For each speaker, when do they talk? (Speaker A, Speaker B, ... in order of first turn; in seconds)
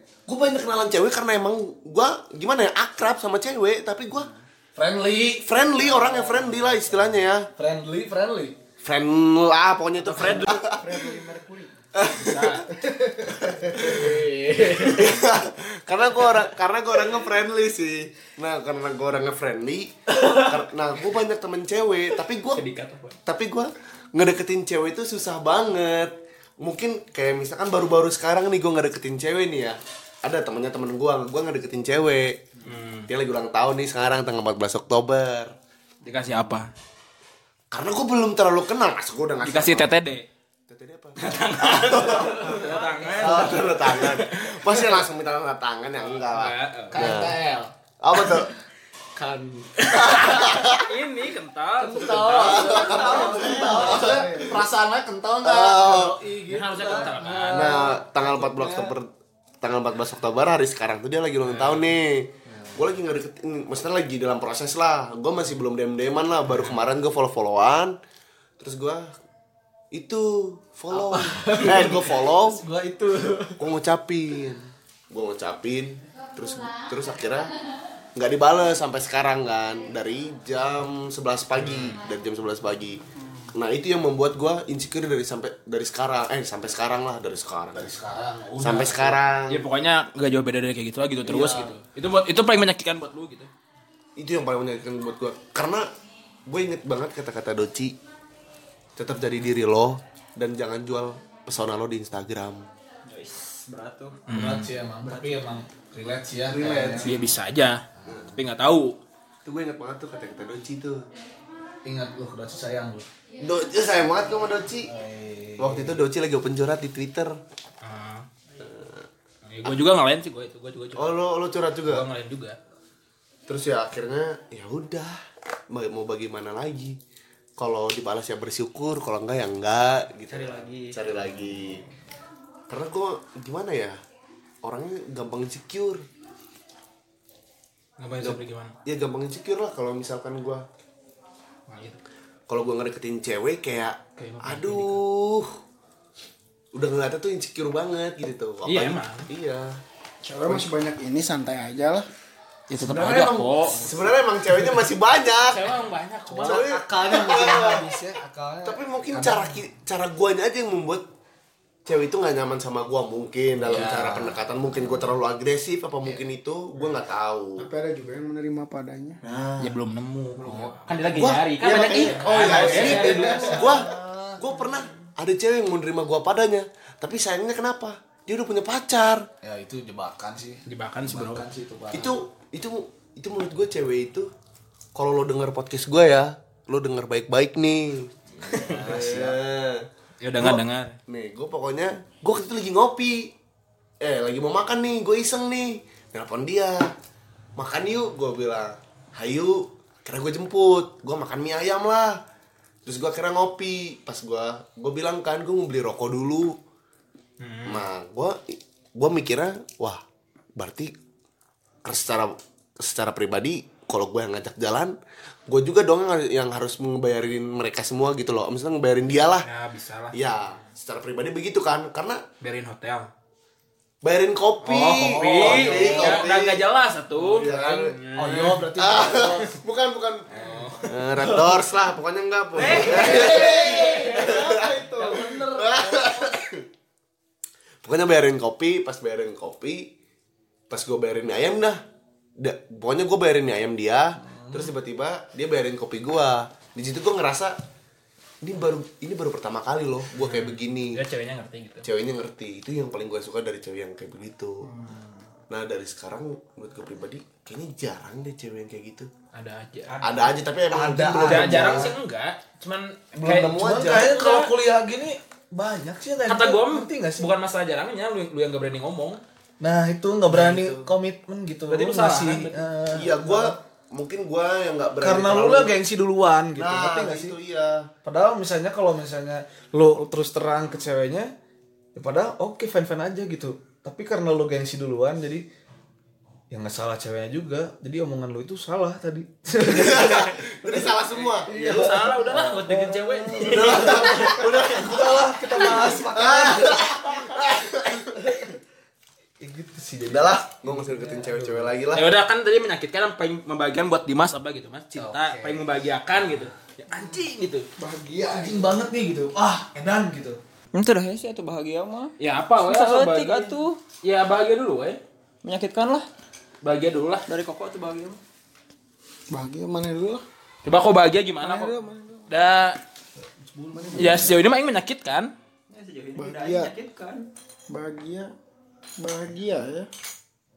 Speaker A: 0.3-4.3, 5.4-7.5, 8.8-11.0, 11.9-12.7, 13.3-22.6, 23.2-32.5, 33.1-35.5, 37.7-39.9, 40.7-47.3, 48.0-48.5, 49.9-50.8, 52.0-54.6, 55.4-56.2, 57.5-59.1, 59.6-68.0, 68.6-69.1, 69.9-72.6, 73.6-77.5, 78.1-83.0, 83.5-87.9, 88.6-89.6, 94.2-95.9, 96.5-97.9, 99.0-102.7, 106.4-107.3, 109.4-111.0, 113.4-114.9, 115.6-117.4, 118.6-119.0, 121.0-122.0, 123.5-125.2, 125.7-127.0, 127.6-131.8, 132.7-134.0, 134.6-136.0, 138.2-140.6, 142.5-145.5, 146.7-149.8, 152.8-155.8, 156.3-157.9, 158.6-161.0, 161.8-167.7, 169.2-169.7, 170.4-179.3, 181.9-184.3, 184.9-188.1, 188.6-189.8, 190.4-193.3, 194.0-196.9, 197.6-202.2, 202.8-206.6, 207.7-210.0, 210.6-210.9, 211.8-214.9, 215.5-219.5, 220.1-222.2, 224.0-226.6, 227.2-230.2, 230.8-236.6, 237.8-239.9, 240.7-241.8, 242.4-247.6, 248.4-251.0, 251.8-254.7, 255.5-259.1, 260.0-261.9, 263.2-264.1, 270.3-270.9, 272.9-275.7, 276.6-277.9, 289.7-291.5, 293.5-298.3, 300.1-302.1
Speaker B: 4.8-8.6, 10.1-10.6, 13.7-15.2, 42.4-43.6, 46.9-48.4, 49.1-50.5, 51.8-58.9, 62.5-62.9, 70.9-73.7, 87.7-89.2, 91.2-91.8, 104.3-107.2, 108.0-108.3, 111.8-113.1, 114.8-116.0, 156.3-159.6, 163.6-164.4, 170.4-170.7, 172.2-174.1, 179.4-182.2, 188.3-189.4, 225.0-226.3, 227.2-229.5, 230.4-231.6, 232.6-236.3, 244.2-244.7, 260.7-262.0, 263.2-267.3, 269.6-273.6, 275.0-277.4, 278.0-281.3, 281.9-285.4, 286.5-290.9, 291.5-298.5, 299.4-301.8, 304.9-305.6, 308.2-310.4, 323.5-324.3
Speaker C: 10.1-10.5, 12.1-12.7, 22.5-23.2, 32.6-33.1, 36.0-36.7, 39.4-40.2, 41.2-44.7, 46.0-47.1, 49.9-53.1, 56.5-57.9, 61.4-61.9, 89.5-93.5, 104.3-104.7, 107.0-107.8, 108.3-109.0, 117.8-118.3, 119.5-121.2, 121.8-122.6, 138.0-138.7, 141.7-142.0, 144.2-145.0, 148.7-149.3, 152.7-154.1, 155.5-156.7, 169.6-173.7, 180.7-181.4, 188.5-188.8, 190.2-191.0, 207.4-207.8, 219.4-220.2, 222.4-223.1, 224.6-228.6, 230.3-230.9, 232.6-232.9, 250.2-251.8, 259.3-260.3, 261.1-264.5, 266.3-269.2, 271.7-272.6, 291.2-294.4, 301.9-307.7, 312.2-315.0, 316.6-317.2, 320.6-321.7, 322.3-322.8, 323.9-325.3
Speaker D: 10.6-11.7, 12.9-13.8, 52.9-54.6, 150.2-152.1, 167.6-169.2, 171.7-173.7, 232.7-235.4, 307.8-308.9, 319.3-320.2, 321.4-322.3, 323.7-324.3, 326.2-326.7, 327.7-328.3, 329.0-329.9
Speaker E: 103.1-104.2, 105.0-105.4, 130.3-130.9, 310.7-313.8, 315.4-316.1, 317.3-318.2, 325.7-327.3